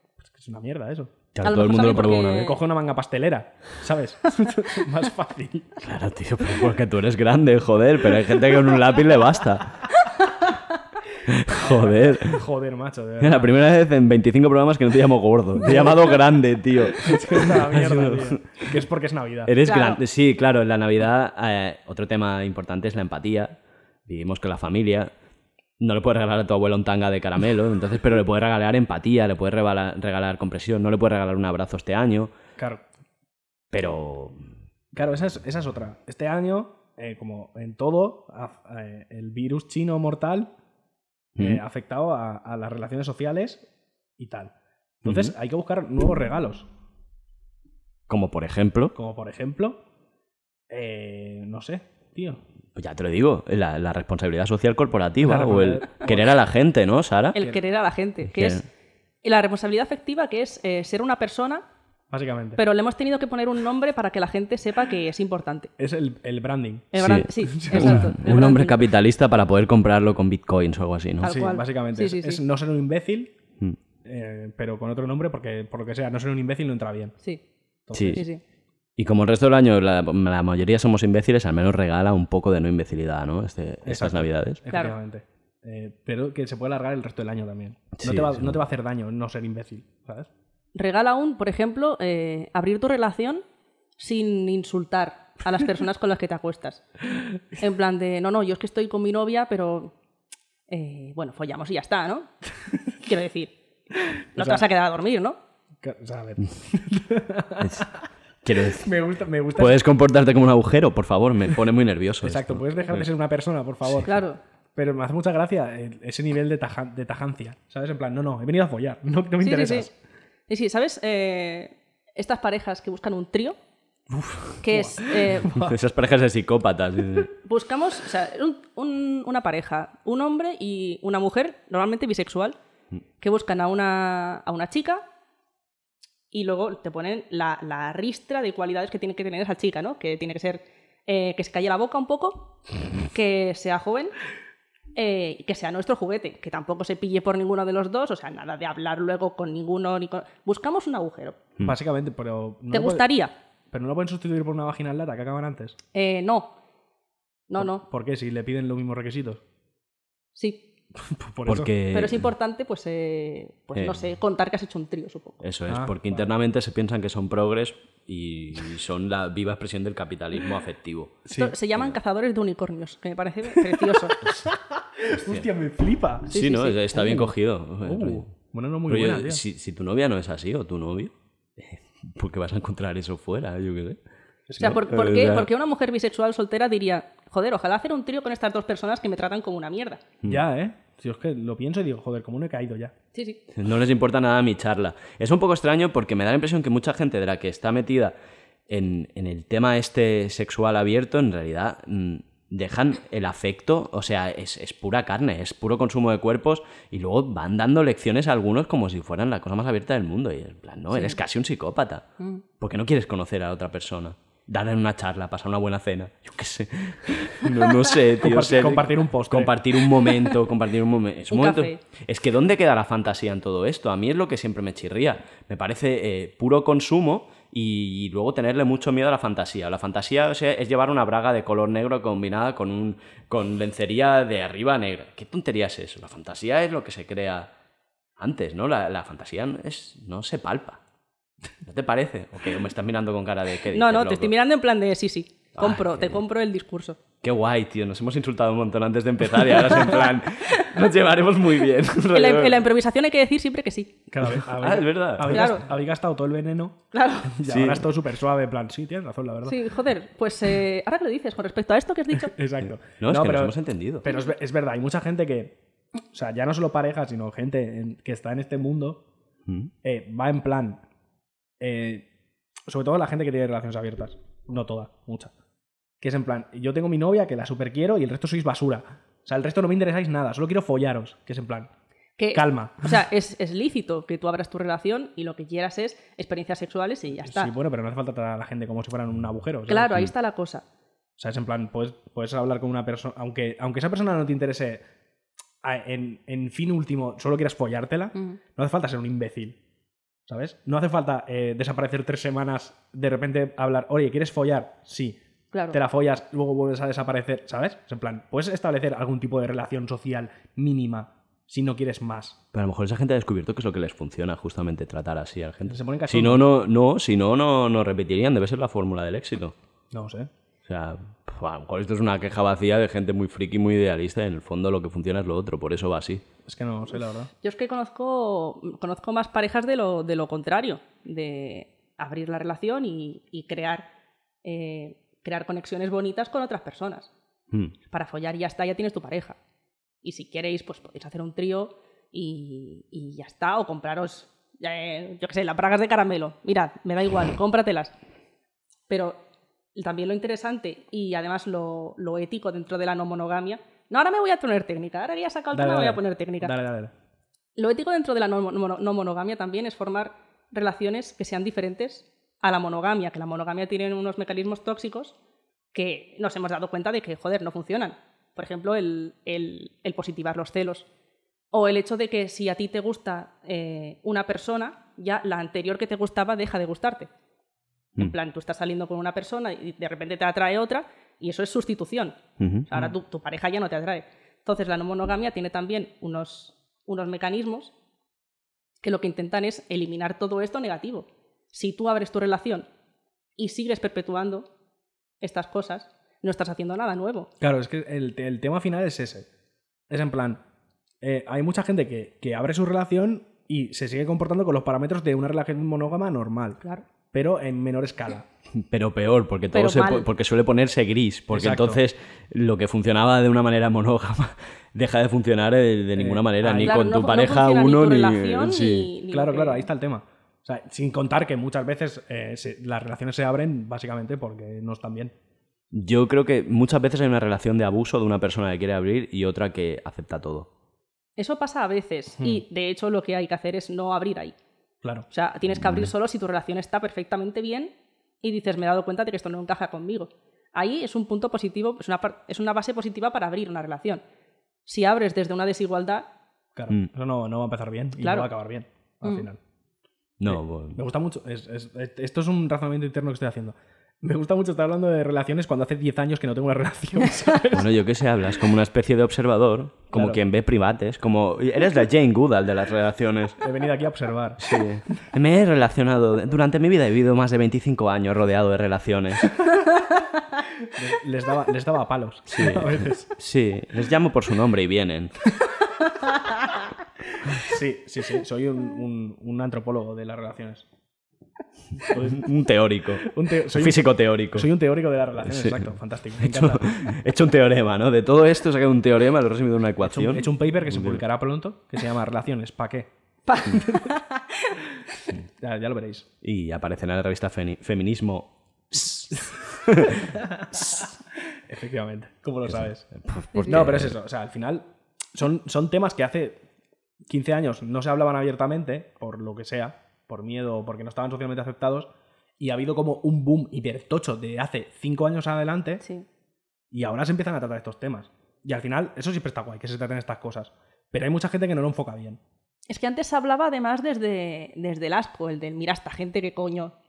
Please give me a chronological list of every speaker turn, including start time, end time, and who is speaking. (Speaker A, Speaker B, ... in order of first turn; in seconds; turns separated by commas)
Speaker A: 0.2-1.1, Speaker B: 1.3-2.5, Speaker C: 1.4-2.6, Speaker A: 2.0-5.8, Speaker B: 5.8-9.8, Speaker B: 11.3-12.4, Speaker A: 11.5-13.5, Speaker B: 13.2-18.8, Speaker A: 15.6-16.1, Speaker A: 17.0-19.5, Speaker B: 19.5-23.6, Speaker C: 19.6-20.0, Speaker B: 24.1-25.1, Speaker B: 25.8-32.3, Speaker A: 32.6-32.8, Speaker B: 33.7-34.4, Speaker A: 34.9-40.5, Speaker A: 41.4-43.7, Speaker A: 44.2-46.7, Speaker B: 45.0-45.3, Speaker B: 48.1-49.0, Speaker A: 48.9-49.8, Speaker A: 50.7-52.4, Speaker B: 52.8-57.4, Speaker A: 55.2-56.3, Speaker C: 57.3-58.6, Speaker B: 58.3-58.6, Speaker C: 59.2-61.6, Speaker A: 62.1-62.6, Speaker C: 62.6-65.7, Speaker A: 65.8-68.2, Speaker C: 66.9-68.8, Speaker B: 67.0-71.3, Speaker C: 71.2-72.4, Speaker A: 71.2-73.4, Speaker A: 74.0-77.2, Speaker A: 77.9-78.3, Speaker B: 78.0-78.2, Speaker C: 78.0-78.4, Speaker B: 79.0-84.6, Speaker A: 83.8-90.3, Speaker B: 88.0-88.5, Speaker C: 90.8-93.4, Speaker C: 94.0-96.8, Speaker C: 97.6-99.9, Speaker C: 100.7-102.3, Speaker C: 103.0-103.5, Speaker C: 104.3-105.4, Speaker A: 104.4-104.6, Speaker A: 105.8-108.0, Speaker B: 108.4-108.9, Speaker A: 108.8-109.8, Speaker B: 109.6-113.1, Speaker A: 112.2-114.2, Speaker C: 114.0-114.4, Speaker A: 114.8-119.9, Speaker C: 119.4-119.9, Speaker C: 120.5-123.6, Speaker C: 124.6-125.5, Speaker A: 124.6-125.8, Speaker B: 125.5-127.3, Speaker C: 127.4-132.6, Speaker C: 133.2-135.0, Speaker C: 136.3-144.1, Speaker C: 144.9-151.4, Speaker A: 151.6-153.1, Speaker C: 152.7-153.3, Speaker A: 153.7-155.8, Speaker C: 155.9-156.5, Speaker C: 157.5-157.8, Speaker A: 157.6-159.4, Speaker C: 160.4-160.7, Speaker A: 161.0-161.7, Speaker B: 161.5-162.3, Speaker C: 161.9-165.4, Speaker B: 165.4-171.2, Speaker A: 165.7-166.3, Speaker A: 171.3-171.6, Speaker C: 171.3-174.2, Speaker A: 173.6-177.3, Speaker B: 176.3-178.3, Speaker C: 176.3-176.8, Speaker A: 177.8-179.4, Speaker B: 178.9-184.0, Speaker A: 184.5-184.8, Speaker C: 184.6-190.0, Speaker B: 184.6-185.5, Speaker A: 190.2-192.9, Speaker C: 193.1-193.4, Speaker B: 193.5-198.2, Speaker B: 198.7-212.1, Speaker C: 210.9-211.2, Speaker B: 212.6-237.5, Speaker A: 218.2-219.6, Speaker C: 221.3-221.8, Speaker B: 238.2-240.8, Speaker B: 241.7-244.3, Speaker C: 243.7-247.0, Speaker B: 245.6-246.2, Speaker B: 247.2-252.7, Speaker C: 252.1-253.9, Speaker A: 254.1-259.6, Speaker B: 254.2-255.5, Speaker C: 255.3-255.6, Speaker C: 256.9-257.4, Speaker B: 257.5-257.9, Speaker C: 259.5-262.3, Speaker A: 262.2-265.6, Speaker B: 263.0-264.0, Speaker A: 266.1-269.0, Speaker A: 269.8-270.8, Speaker A: 271.6-272.1, Speaker A: 272.7-275.3, Speaker A: 276.0-281.7, Speaker C: 282.2-287.5, Speaker A: 282.3-282.9, Speaker A: 287.2-290.1, Speaker C: 289.7-290.6, Speaker A: 291.2-294.8, Speaker A: 295.6-299.6, Speaker A: 300.3-305.2, Speaker C: 305.5-305.8, Speaker A: 305.7-312.4, Speaker B: 312.5-319.6, Speaker A: 315.7-316.5, Speaker A: 319.9-320.3, Speaker B: 320.7-326.2, Speaker A: 326.5-327.3, Speaker C: 327.4-333.9, Speaker C: 334.4-337.1, Speaker C: 337.9-339.4, Speaker C: 340.0-347.9, Speaker C: 348.9-349.2, Speaker C: 349.8-356.5, Speaker A: 355.5-356.9, Speaker C: 357.6-365.1, Speaker C: 365.7-370.9, Speaker C: 371.5-377.1, Speaker C: 378.0-382.2, Speaker B: 382.4-382.7, Speaker C: 382.7-387.7, Speaker C: 388.8-392.7, Speaker C: 393.4-394.5, Speaker C: 395.2-397.3, Speaker A: 397.4-399.3, Speaker A: 399.9-400.4, Speaker A: 401.0-406.6, Speaker A: 407.1-408.3, Speaker B: 408.7-418.9, Speaker C: 409.5-410.1, Speaker A: 411.3-411.8, Speaker A: 416.0-416.8, Speaker C: 416.5-419.7, Speaker A: 419.1-425.1, Speaker B: 425.7-430.5, Speaker C: 431.2-434.4, Speaker C: 435.1-444.0, Speaker B: 435.6-435.9, Speaker C: 444.7-446.1, Speaker A: 446.6-449.4, Speaker C: 448.0-448.3, Speaker B: 450.2-450.8, Speaker A: 450.3-457.7, Speaker B: 457.5-463.4, Speaker A: 459.9-460.2, Speaker A: 463.4-464.4, Speaker B: 464.4-469.4, Speaker A: 470.7-473.1, Speaker B: 472.3-475.2, Speaker A: 477.3-480.7, Speaker A: 481.9-482.3, Speaker B: 481.9-484.5, Speaker A: 483.0-486.8, Speaker B: 485.3-491.0, Speaker A: 489.8-492.9, Speaker C: 493.3-494.5, Speaker A: 493.4-493.9, Speaker A: 495.4-496.1, Speaker B: 496.2-500.1, Speaker A: 500.0-500.9, Speaker A: 501.5-502.9, Speaker B: 503.0-503.9, Speaker C: 503.3-503.6, Speaker A: 503.4-506.4, Speaker A: 507.1-515.8, Speaker C: 515.8-516.1, Speaker A: 516.7-522.2, Speaker C: 522.7-526.7